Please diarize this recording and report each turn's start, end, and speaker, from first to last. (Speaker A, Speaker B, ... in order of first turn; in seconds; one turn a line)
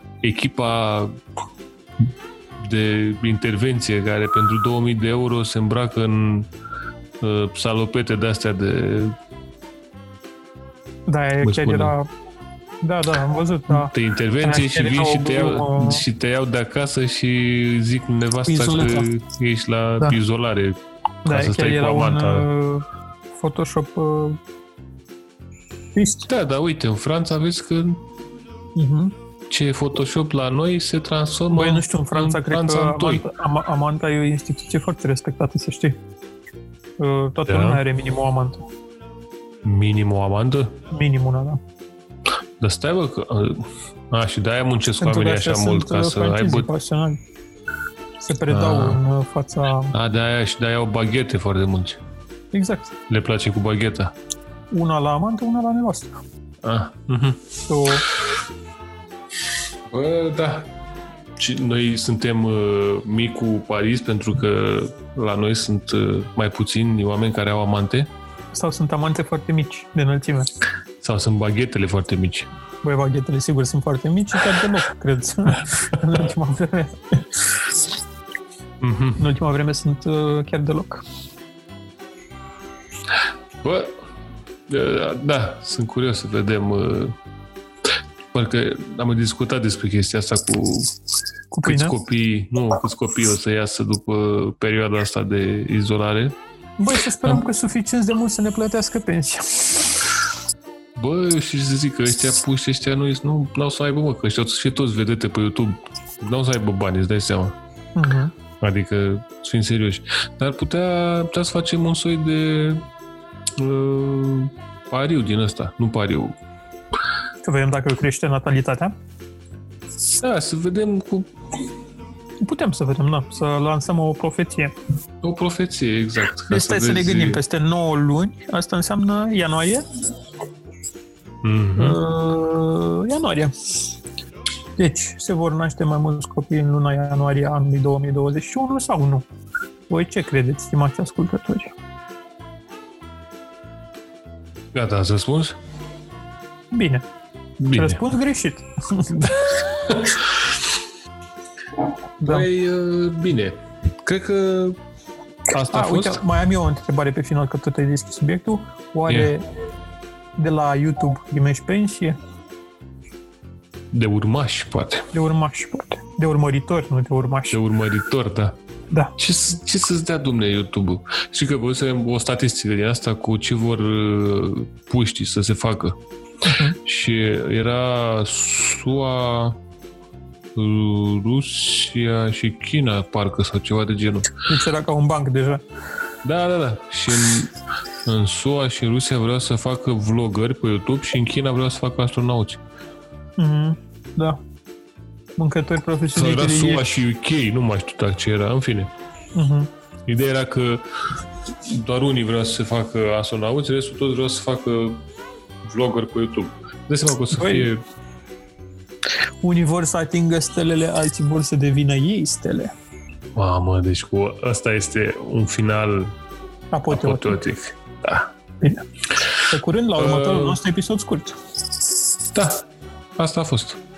Speaker A: 0.2-1.1
Speaker A: 2.6-6.5
Speaker A: 7.2-9.2
Speaker B: 11.1-12.1
Speaker A: 11.4-11.9
Speaker B: 12.8-16.0
Speaker A: 13.7-22.5
Speaker B: 18.4-19.1
Speaker B: 21.2-24.4
Speaker B: 25.9-26.3
Speaker A: 26.3-28.0
Speaker B: 28.8-29.1
Speaker A: 29.5-33.3
Speaker B: 31.5-36.0
Speaker B: 37.0-38.6
Speaker A: 37.5-37.8
Speaker A: 39.6-40.7
Speaker B: 40.9-41.6
Speaker A: 42.6-46.7
Speaker B: 45.0-47.2
Speaker B: 48.2-49.9
Speaker A: 48.5-49.0
Speaker A: 49.9-52.0
Speaker B: 52.5-52.9
Speaker A: 53.1-54.1
Speaker B: 54.7-56.1
Speaker A: 56.6-57.4
Speaker B: 57.7-58.0
Speaker A: 59.9-60.7
Speaker A: 61.4-68.1
Speaker B: 68.5-70.5
Speaker A: 71.0-72.5
Speaker B: 72.8-77.6
Speaker A: 78.8-79.2
Speaker B: 79.2-81.0
Speaker A: 83.6-84.0
Speaker A: 84.7-87.2
Speaker A: 88.3-90.9
Speaker B: 91.5-91.9
Speaker A: 91.6-96.3
Speaker B: 96.8-99.9
Speaker A: 101.0-107.5
Speaker B: 108.0-108.3
Speaker A: 108.6-112.8
Speaker A: 113.5-116.4
Speaker B: 117.4-118.9
Speaker A: 120.1-121.3
Speaker B: 122.4-124.7
Speaker A: 125.2-127.4
Speaker B: 126.5-129.8
Speaker A: 131.4-132.0
Speaker B: 131.8-133.5
Speaker B: 134.8-139.2
Speaker B: 139.9-141.7
Speaker A: 144.7-145.6
Speaker B: 146.7-147.0
Speaker A: 147.6-148.0
Speaker B: 147.7-149.4
Speaker A: 149.2-150.5
Speaker B: 152.2-152.5
Speaker A: 152.2-154.8
Speaker A: 155.5-156.2
Speaker B: 155.6-159.4
Speaker B: 160.4-162.2
Speaker A: 163.9-165.1
Speaker B: 165.1-167.6
Speaker A: 167.5-168.6
Speaker A: 169.2-176.0
Speaker B: 176.4-176.8
Speaker A: 176.8-179.6
Speaker A: 180.5-184.3
Speaker B: 184.4-185.6
Speaker A: 186.2-187.5
Speaker A: 188.0-192.6
Speaker B: 193.4-194.4
Speaker B: 195.4-197.0
Speaker A: 196.1-198.9
Speaker B: 199.3-199.7
Speaker A: 200.1-200.8
Speaker A: 201.5-205.0
Speaker A: 205.6-207.8
Speaker B: 207.3-207.7
Speaker B: 209.4-212.7
Speaker A: 213.3-216.1
Speaker B: 216.7-217.4
Speaker A: 216.9-218.3
Speaker B: 219.5-221.4
Speaker A: 220.0-220.6
Speaker A: 222.3-222.6
Speaker A: 223.2-223.8